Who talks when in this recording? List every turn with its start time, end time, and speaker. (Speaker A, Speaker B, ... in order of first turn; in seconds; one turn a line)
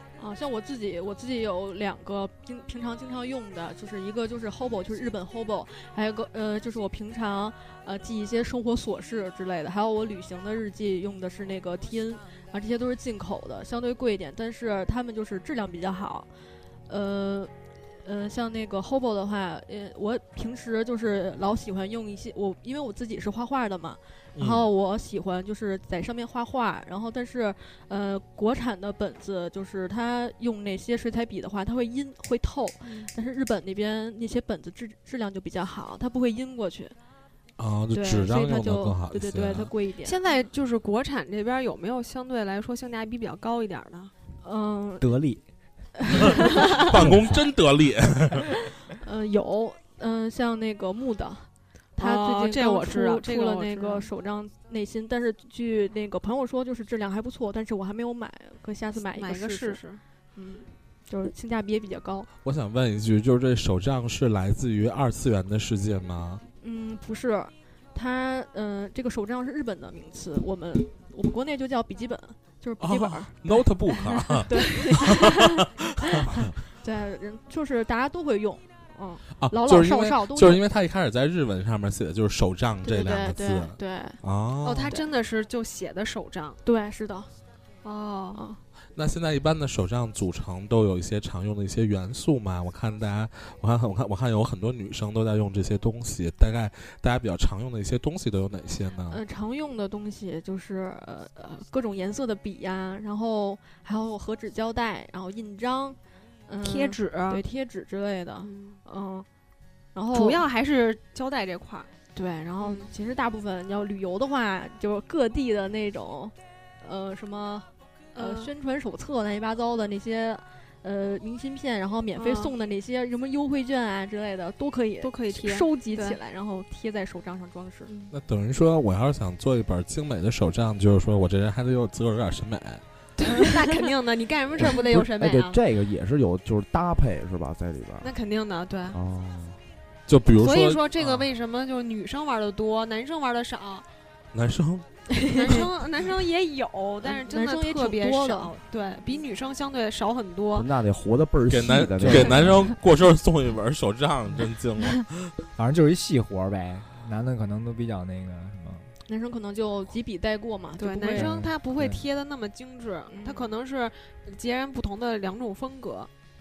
Speaker A: 0.2-16.3
Speaker A: 16.9-17.5
Speaker A: 18.0-37.0
Speaker B: 24.3-24.7
Speaker C: 32.8-33.1
Speaker B: 37.6-39.7
Speaker A: 37.9-40.1
Speaker C: 40.0-44.1
Speaker A: 44.4-45.1
Speaker D: 45.0-45.4
Speaker A: 46.1-46.5
Speaker B: 46.7-48.5
Speaker A: 49.0-59.8
Speaker C: 52.0-54.1
Speaker C: 59.1-60.0
Speaker A: 60.3-62.3
Speaker B: 62.4-66.4
Speaker A: 66.6-80.6
Speaker B: 72.8-76.5
Speaker B: 79.3-85.0
Speaker A: 82.8-84.2
Speaker C: 84.6-86.6
Speaker A: 86.6-87.3
Speaker C: 87.8-88.4
Speaker A: 88.3-88.6
Speaker B: 88.9-99.2
Speaker A: 99.1-109.3
Speaker C: 106.6-107.4
Speaker C: 108.4-108.8
Speaker A: 109.9-110.4
Speaker C: 110.1-111.9
Speaker A: 112.1-127.9
Speaker C: 112.6-112.9
Speaker C: 118.1-118.5
Speaker C: 122.2-122.5
Speaker C: 125.0-126.2
Speaker C: 127.9-128.1
Speaker B: 128.1-132.8
Speaker C: 133.2-135.6
Speaker E: 134.6-138.1
Speaker C: 138.0-139.0
Speaker E: 138.9-139.6
Speaker B: 140.1-141.2
Speaker C: 140.4-143.8
Speaker B: 144.3-144.9
Speaker A: 145.1-145.6
Speaker C: 145.3-150.7
Speaker A: 147.0-148.5
Speaker E: 150.5-152.7
Speaker B: 151.5-155.3
Speaker D: 155.6-158.9
Speaker A: 159.1-161.4
Speaker C: 160.8-166.1
Speaker D: 161.1-162.0
Speaker A: 163.1-163.5